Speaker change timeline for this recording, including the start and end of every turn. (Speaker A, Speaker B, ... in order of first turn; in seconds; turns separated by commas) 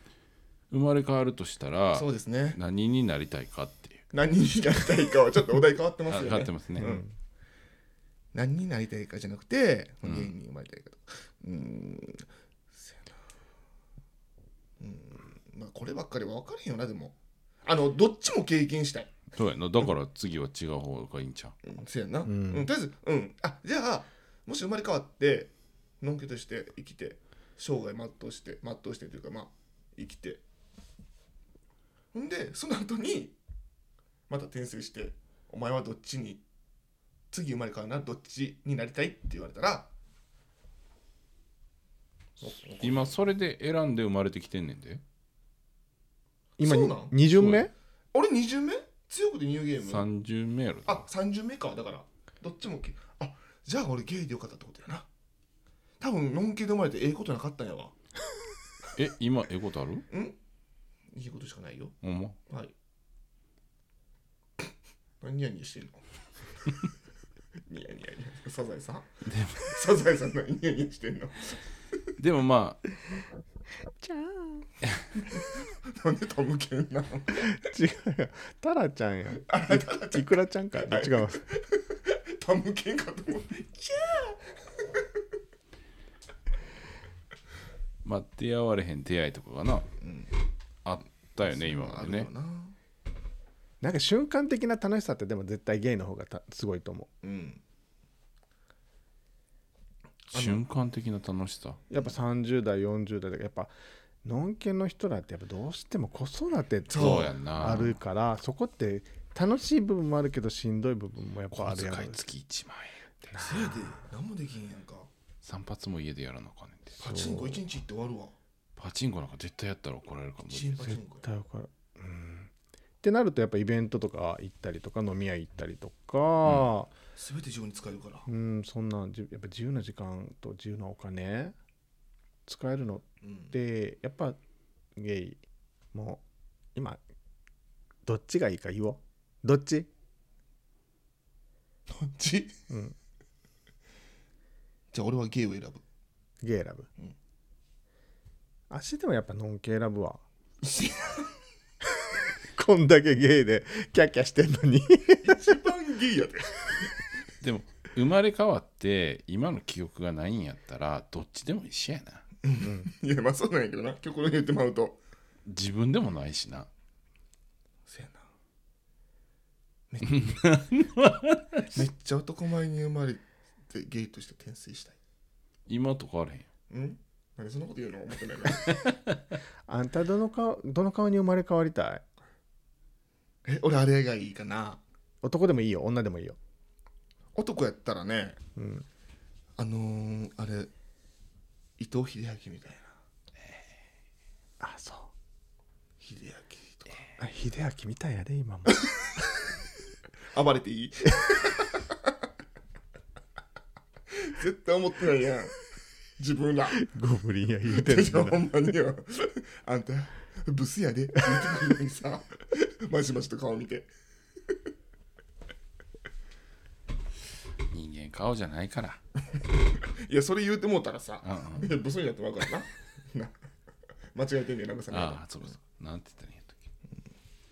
Speaker A: 0.7-4.0, Speaker B: 1.9-2.6, Speaker B: 4.1-7.0, Speaker A: 6.1-7.0, Speaker C: 6.8-7.1, Speaker B: 8.3-13.1, Speaker A: 10.0-10.3, Speaker B: 14.8-19.1, Speaker A: 19.3-21.6, Speaker B: 21.6-30.4, Speaker C: 22.2-22.7, Speaker B: 32.1-33.4, Speaker B: 34.3-36.4, Speaker B: 37.3-39.9, Speaker B: 42.4-43.2, Speaker A: 42.5-45.0, Speaker C: 46.6-47.7, Speaker B: 46.6-47.2, Speaker A: 47.3-47.6, Speaker B: 48.1-50.1, Speaker A: 49.8-51.0, Speaker B: 50.9-55.1, Speaker B: 56.0-58.0, Speaker A: 59.0-60.1, Speaker B: 60.1-60.4, Speaker B: 61.1-62.0, Speaker A: 62.0-62.4, Speaker B: 62.5-62.7, Speaker B: 65.2-66.0, Speaker B: 67.7-71.6, Speaker A: 69.2-69.7, Speaker A: 72.2-72.8, Speaker C: 74.0-74.7, Speaker B: 75.3-77.5, Speaker C: 77.4-81.5, Speaker B: 79.5-84.4, Speaker A: 88.0-89.9, Speaker B: 90.0-90.4, Speaker A: 90.8-92.3, Speaker B: 91.4-92.8, Speaker C: 93.8-97.1, Speaker B: 97.2-97.6, Speaker A: 100.3-101.8, Speaker B: 100.3-100.6, Speaker C: 101.9-103.7, Speaker C: 104.2-112.3, Speaker B: 106.9-107.3, Speaker A: 107.0-108.0, Speaker A: 111.5-113.1, Speaker C: 113.3-113.8, Speaker B: 113.3-115.1, Speaker A: 115.4-117.0, Speaker B: 117.0-118.3, Speaker C: 117.0-117.7, Speaker A: 118.8-120.9, Speaker B: 120.5-121.3, Speaker C: 120.8-122.5, Speaker C: 123.0-126.9, Speaker B: 127.1-128.3, Speaker C: 128.3-131.6, Speaker C: 132.5-134.4, Speaker B: 133.2-133.5, Speaker C: 135.0-135.4, Speaker C: 135.9-136.2, Speaker C: 136.8-137.0, Speaker C: 138.1-139.9, Speaker B: 141.9-142.5, Speaker B: 144.9-145.8, Speaker C: 146.4-146.9, Speaker C: 148.7-150.2, Speaker B: 150.6-151.3, Speaker C: 152.5-155.6, Speaker B: 155.2-156.9, Speaker A: 157.4-162.2, Speaker B: 162.4-165.0, Speaker C: 162.6-162.9, Speaker A: 165.5-166.7, Speaker B: 167.9-168.3, Speaker B: 169.9-170.5, Speaker A: 170.1-171.6, Speaker B: 171.7-175.0, Speaker A: 175.7-176.5, Speaker B: 176.7-178.7, Speaker C: 179.7-182.0, Speaker B: 183.4-184.8, Speaker C: 185.2-186.4, Speaker B: 187.3-188.4, Speaker C: 188.6-188.9, Speaker B: 189.6-190.7, Speaker B: 191.8-193.0, Speaker C: 194.6-195.1, Speaker B: 196.0-197.0, Speaker C: 197.2-198.8, Speaker B: 200.3-202.1, Speaker B: 204.1-205.6, Speaker B: 206.2-206.8, Speaker C: 206.7-208.8, Speaker B: 207.7-213.9, Speaker A: 217.7-219.0, Speaker B: 220.0-223.4, Speaker A: 221.2-221.8, Speaker B: 224.1-225.5, Speaker A: 224.9-226.6